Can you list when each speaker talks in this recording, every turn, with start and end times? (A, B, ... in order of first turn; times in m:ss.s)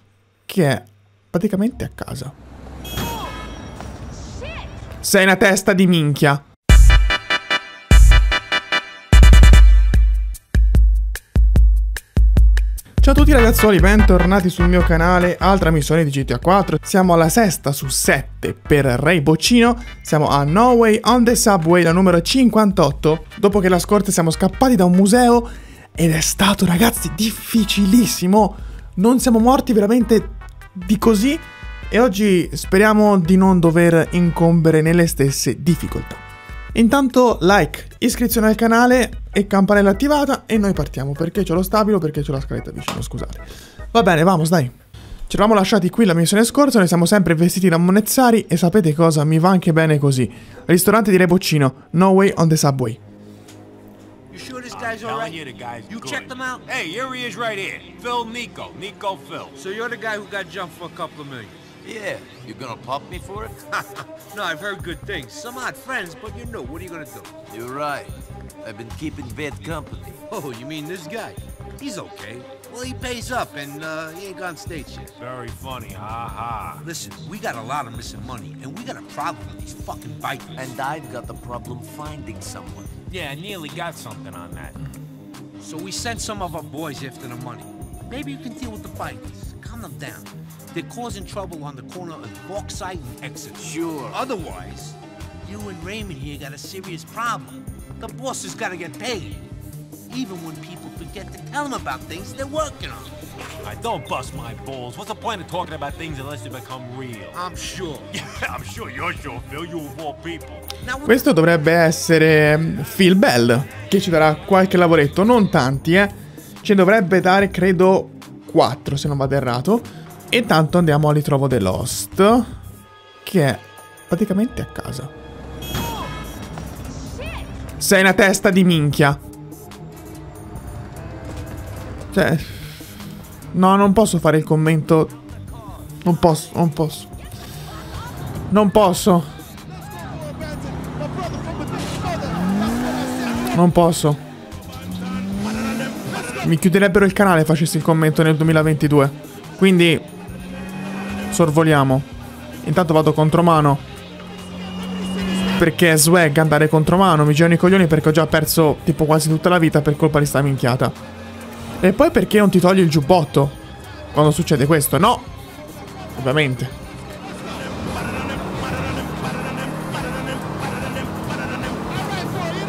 0:00.5-0:02.4 A
0:05.0-0:06.4 A
0:13.0-0:36.2 A
0:36.7-0:44.7 A
0:45.3-0:53.0 A
0:54.3-0:56.6 B
0:54.7-0:59.6 C
0:59.6-1:01.6 B
1:01.8-1:03.6 D
1:04.2-1:07.3 B
1:07.5-1:10.2 D
1:10.3-1:15.1 B
1:15.2-1:16.8 C
1:16.8-1:20.7 B
1:20.6-1:22.9 D
1:23.1-1:24.8 C
1:25.6-1:39.5 B
1:33.7-1:34.2 D
1:40.1-1:43.2 B
1:43.6-1:47.3 C
1:47.3-1:48.1 B
1:48.2-1:50.6 C
1:50.8-1:51.4 B
1:51.1-2:02.5 A
2:03.2-2:05.1 A
2:07.8-2:09.2 A
2:12.1-2:12.8 A
2:13.5-2:15.1 A
2:16.0-2:17.1 A
2:18.5-2:19.3 A
2:23.5-2:24.2 A
2:26.2-2:30.1 A
2:31.3-2:32.1 A
2:32.6-2:33.9 A
2:35.6-2:41.0 A
2:41.8-2:43.6 A
2:44.1-2:45.3 A
2:46.2-2:46.7 A